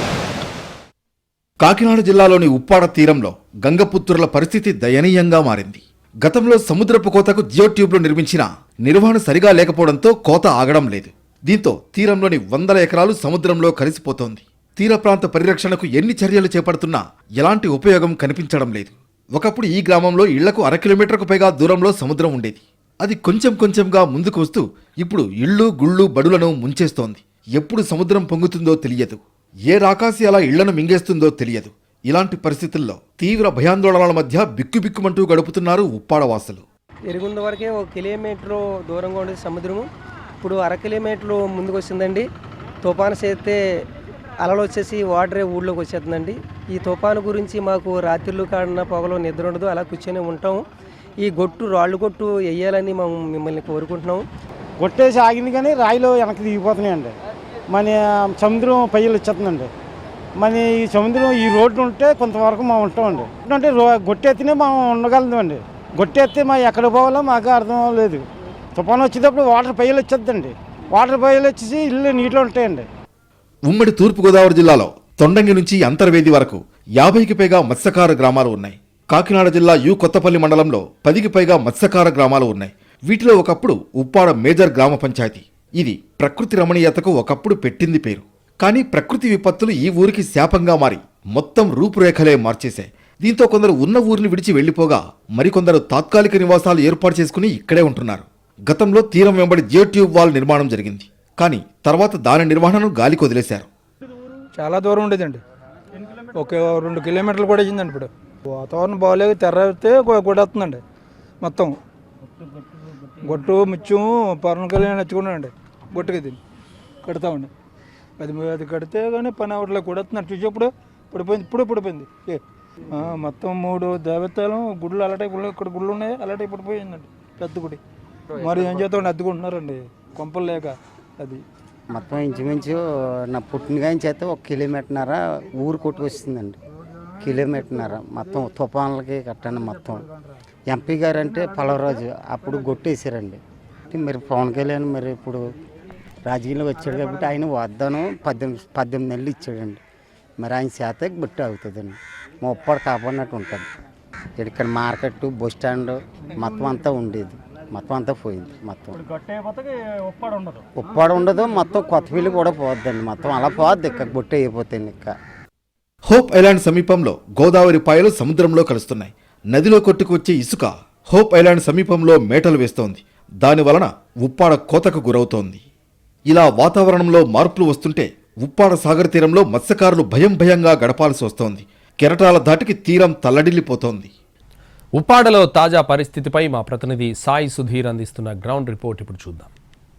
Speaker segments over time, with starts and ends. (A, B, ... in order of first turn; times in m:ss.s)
0:01.6-0:36.6 A
0:37.1-0:39.9 B
0:40.4-0:42.2 B
0:42.8-0:43.6 B
0:44.4-0:50.6 B
0:51.2-0:54.2 B
0:54.8-0:57.1 C
0:57.7-0:59.7 C
1:00.4-1:08.2 C
1:08.8-1:12.9 C
1:13.7-1:43.7 A
1:44.6-1:45.4 D
1:46.3-1:50.8 D
1:51.4-1:51.8 D
1:53.3-1:56.4 D
1:57.0-1:57.5 D
1:58.2-2:02.4 D
2:03.0-2:07.8 D
2:08.3-2:11.4 D
2:11.9-2:16.6 E
2:17.2-2:20.0 E
2:20.7-2:23.4 E
2:23.9-2:25.4 E
2:26.3-2:29.8 E
2:30.4-2:33.7 E
2:34.4-2:39.0 E
2:40.8-2:45.1 E
2:46.1-2:55.6 A
2:56.3-3:04.1 A
3:05.0-3:09.5 F